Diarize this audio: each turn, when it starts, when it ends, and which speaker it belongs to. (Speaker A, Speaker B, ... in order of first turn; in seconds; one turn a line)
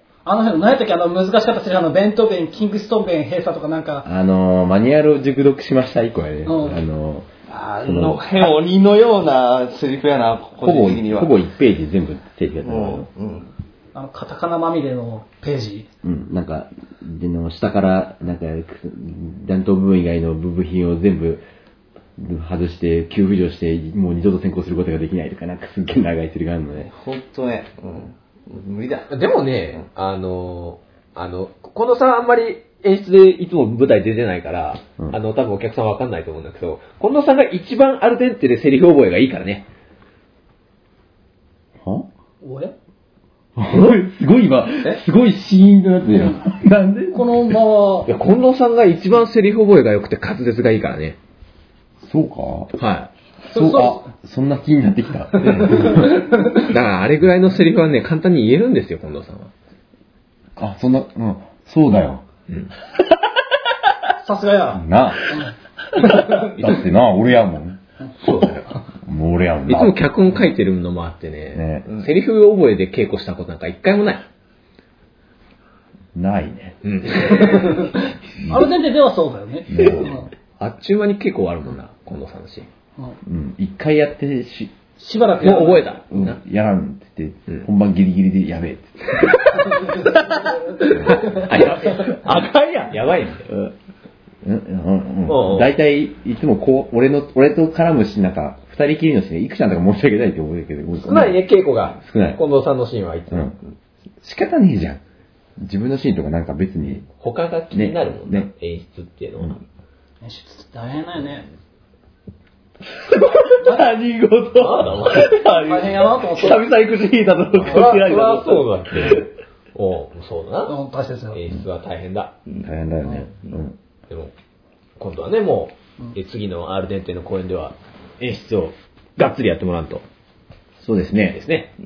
Speaker A: 0.3-4.1
Speaker B: 4.0-7.3
Speaker A: 6.5-6.8
Speaker C: 7.5-11.3
Speaker B: 7.8-8.2
Speaker B: 10.6-13.1
Speaker C: 12.6-13.5
Speaker A: 13.9-15.9
Speaker B: 16.0-21.4
Speaker B: 22.2-26.9
Speaker C: 26.8-29.1
Speaker D: 29.1-39.7
Speaker B: 41.8-42.1
Speaker A: 42.4-42.8
Speaker B: 43.6-47.6
Speaker A: 47.1-48.1
Speaker D: 48.1-51.2
Speaker B: 52.0-52.7
Speaker D: 52.8-53.1
Speaker B: 53.5-56.3
Speaker A: 53.5-53.9
Speaker D: 55.4-59.5
Speaker B: 60.6-62.2
Speaker A: 64.2-64.8
Speaker B: 64.7-65.2
Speaker B: 66.3-70.0
Speaker D: 69.7-74.2
Speaker B: 71.5-71.9
Speaker B: 76.2-76.8
Speaker D: 76.8-77.8
Speaker A: 77.2-80.3
Speaker B: 78.4-78.8
Speaker B: 79.7-80.3
Speaker D: 80.6-82.7
Speaker B: 83.2-84.7
Speaker A: 85.0-85.9
Speaker D: 85.4-86.4
Speaker B: 86.1-89.2
Speaker A: 89.9-91.4
Speaker C: 90.0-90.6
Speaker B: 91.0-91.4
Speaker D: 91.0-92.4
Speaker C: 92.0-93.7
Speaker D: 92.9-93.5
Speaker B: 94.4-101.4
Speaker D: 95.3-95.7
Speaker D: 101.0-103.5
Speaker B: 102.0-102.4
Speaker B: 103.3-103.6
Speaker B: 104.2-105.0
Speaker B: 105.6-107.1
Speaker D: 107.2-109.6
Speaker B: 107.7-108.5
Speaker A: 110.2-111.5
Speaker C: 113.0-119.2
Speaker A: 113.6-113.9
Speaker D: 114.6-115.2
Speaker A: 115.3-116.7
Speaker D: 117.6-120.8
Speaker A: 120.7-121.4
Speaker D: 121.3-122.3
Speaker B: 122.6-123.8
Speaker D: 125.0-130.0
Speaker B: 130.8-131.4
Speaker D: 131.3-131.7